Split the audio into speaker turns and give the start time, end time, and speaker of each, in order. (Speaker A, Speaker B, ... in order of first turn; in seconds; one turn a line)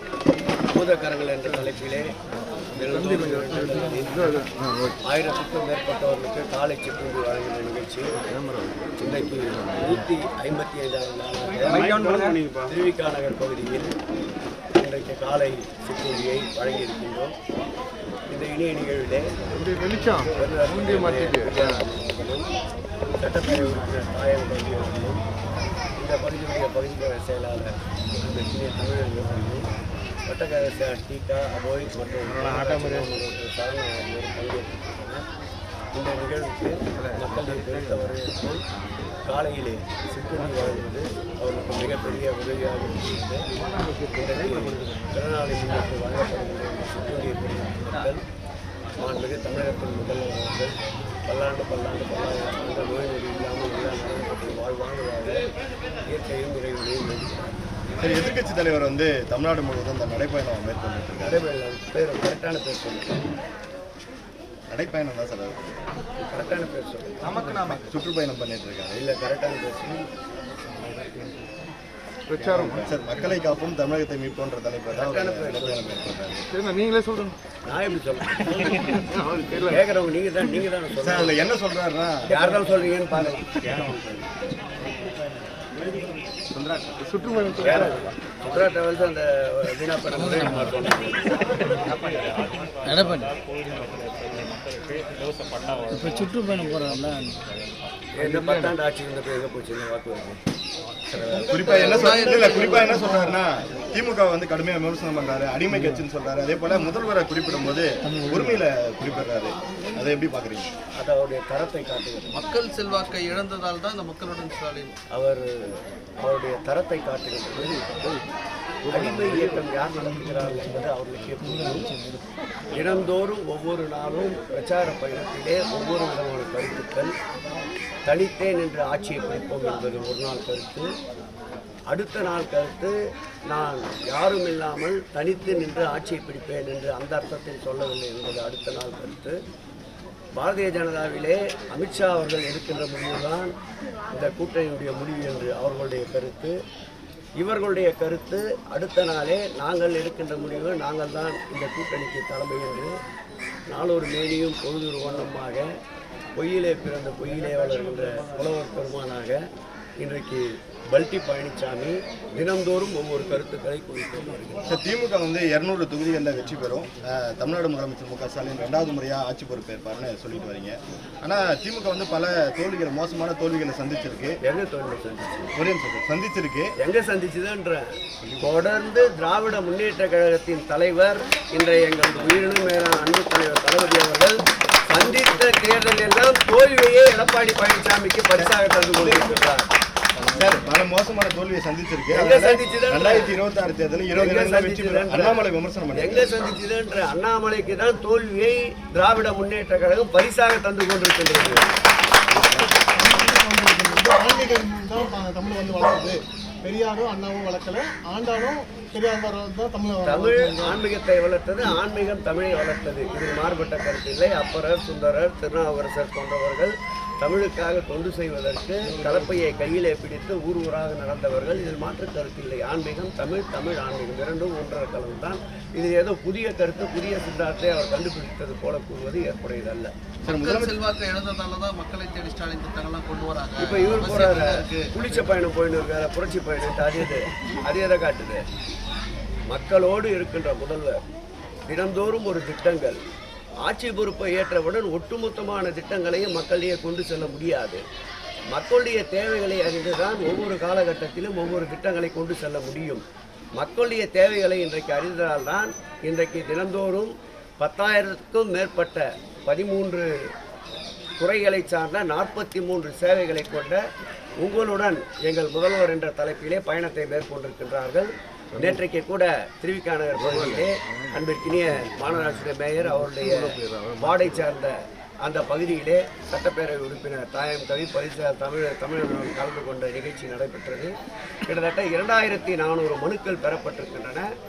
Speaker A: 0.7-2.1
Speaker A: 2.7-4.4
Speaker B: 2.8-5.0
Speaker A: 5.0-8.2
Speaker B: 8.2-10.0
Speaker A: 9.0-13.9
Speaker B: 11.6-12.5
Speaker A: 14.7-17.3
Speaker A: 18.3-19.4
Speaker B: 19.5-21.8
Speaker A: 20.1-22.5
Speaker A: 23.2-25.2
Speaker A: 26.0-29.7
Speaker A: 30.3-35.2
Speaker B: 32.3-33.1
Speaker A: 35.9-38.6
Speaker B: 37.0-38.1
Speaker B: 38.8-39.0
Speaker A: 39.2-43.4
Speaker B: 43.5-45.1
Speaker A: 44.1-48.2
Speaker A: 49.0-50.7
Speaker A: 51.3-55.4
Speaker A: 56.1-57.5
Speaker C: 58.0-61.4
Speaker A: 61.2-63.2
Speaker C: 64.7-65.7
Speaker A: 66.2-67.3
Speaker B: 67.2-68.0
Speaker C: 67.5-69.0
Speaker A: 68.9-70.1
Speaker B: 71.0-71.3
Speaker B: 72.3-72.9
Speaker C: 72.4-76.5
Speaker A: 74.9-75.8
Speaker B: 76.5-77.3
Speaker A: 77.7-78.8
Speaker B: 78.5-79.8
Speaker A: 79.7-81.5
Speaker C: 81.0-82.5
Speaker A: 82.3-83.5
Speaker C: 83.6-84.3
Speaker B: 86.5-88.2
Speaker A: 87.6-91.3
Speaker D: 90.4-90.7
Speaker D: 92.9-93.3
Speaker E: 93.7-94.5
Speaker D: 95.9-97.4
Speaker A: 98.2-100.4
Speaker B: 98.2-98.8
Speaker C: 101.1-110.7
Speaker E: 101.5-103.4
Speaker A: 111.0-112.3
Speaker E: 112.3-115.0
Speaker A: 115.1-117.8
Speaker B: 117.8-118.2
Speaker B: 118.9-119.6
Speaker A: 118.9-122.0
Speaker A: 122.7-127.1
Speaker A: 128.1-130.9
Speaker A: 131.9-133.0
Speaker A: 133.5-139.4
Speaker A: 140.4-143.5
Speaker A: 144.1-146.6
Speaker A: 147.4-152.9
Speaker A: 153.7-155.7
Speaker A: 156.4-159.4
Speaker A: 160.0-164.7
Speaker C: 164.7-174.4
Speaker A: 174.4-175.5
Speaker C: 175.6-176.7
Speaker A: 176.8-189.7
Speaker C: 188.4-189.3
Speaker C: 190.2-196.4
Speaker A: 192.1-193.3
Speaker A: 194.2-195.4
Speaker A: 195.9-201.7
Speaker F: 202.6-210.8
Speaker A: 210.1-229.9
Speaker C: 230.2-230.8
Speaker E: 230.3-235.2
Speaker A: 233.6-238.4
Speaker A: 239.5-241.0
Speaker A: 241.7-243.0
Speaker A: 243.6-247.8
Speaker A: 248.5-253.0
Speaker A: 253.6-260.1
Speaker A: 261.2-263.8
Speaker A: 264.4-280.9
Speaker B: 270.1-274.5
Speaker A: 281.4-284.2